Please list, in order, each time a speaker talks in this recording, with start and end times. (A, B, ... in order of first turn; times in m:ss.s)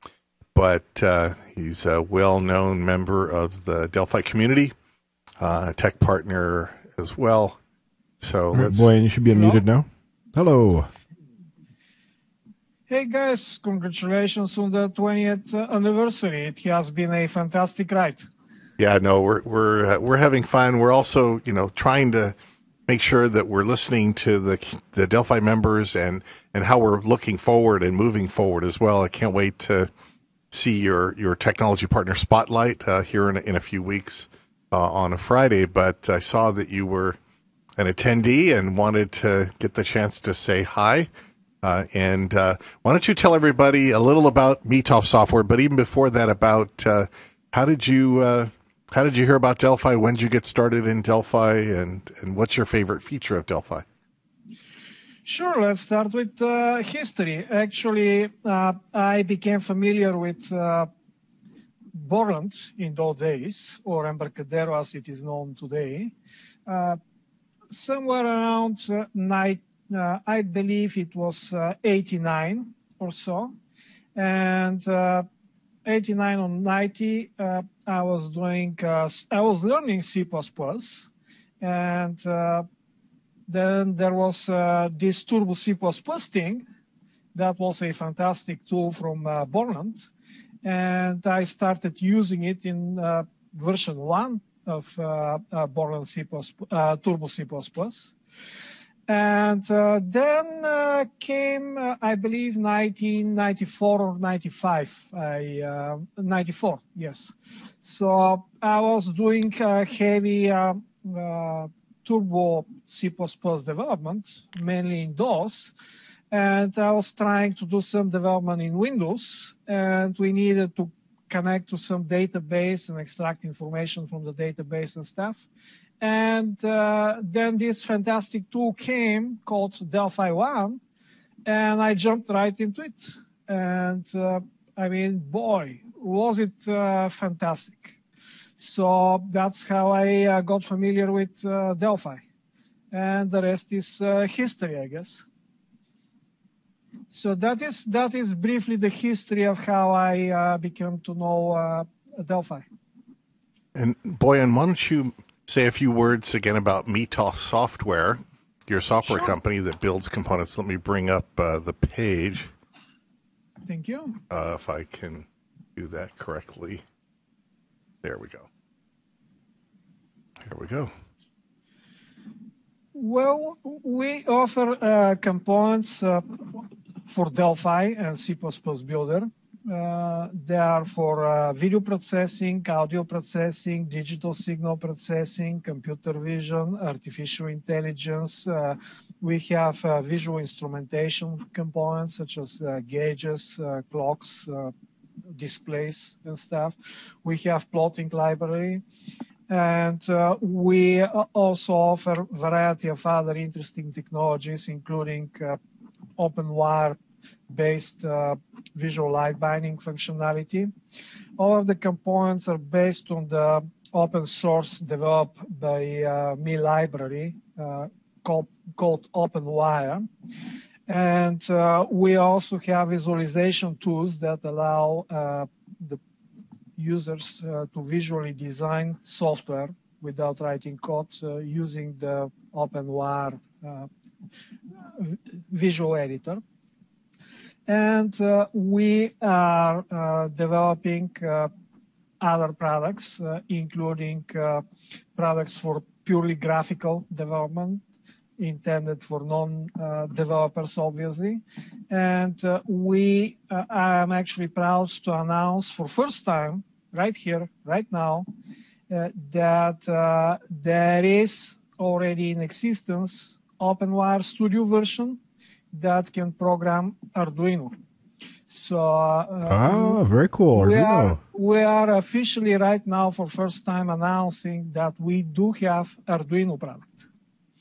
0:00.6-0:04.7 A
0:05.4-0:07.6 A
0:08.2-0:08.9 A
0:08.5-0:10.9 B
0:09.3-0:09.6 C
0:12.9-0:18.3 C
0:18.8-0:22.4 A
0:22.9-0:29.9 A
0:30.5-0:37.2 A
0:37.8-0:41.1 A
0:41.6-0:53.8 A
0:55.2-1:00.9 C
1:01.9-1:06.1 C
1:06.7-1:07.0 C
1:07.7-1:13.5 C
1:14.2-1:15.3 C
1:15.8-1:21.1 C
1:21.6-1:22.7 C
1:23.5-1:26.6 C
1:27.4-1:30.1 C
1:30.6-1:38.1 C
1:39.1-1:55.7 C
1:56.3-2:05.4 C
2:06.0-2:10.8 C
2:11.5-2:18.0 C
2:18.6-2:22.2 C
2:22.9-2:25.2 C
2:27.1-2:32.7 C
2:33.8-2:42.5 A
2:39.0-2:39.4 C
2:43.7-2:44.2 C
2:44.3-2:46.8 A
2:48.0-2:48.5 A
2:50.5-2:50.9 A
2:53.0-3:14.7 C
3:15.3-3:18.8 C
3:19.5-3:25.6 C
3:26.2-3:27.0 C
3:27.5-3:30.7 C
3:31.4-3:40.1 C
3:40.9-3:46.0 C
3:46.8-3:53.9 C
3:54.9-3:56.4 C
3:57.7-4:01.5 C
4:02.2-4:04.6 C
4:05.2-4:07.8 C
4:08.4-4:18.3 C
4:18.9-4:25.2 C
4:25.7-4:27.8 C
4:28.5-4:30.0 C
4:29.5-4:31.2 B
4:30.5-4:37.1 C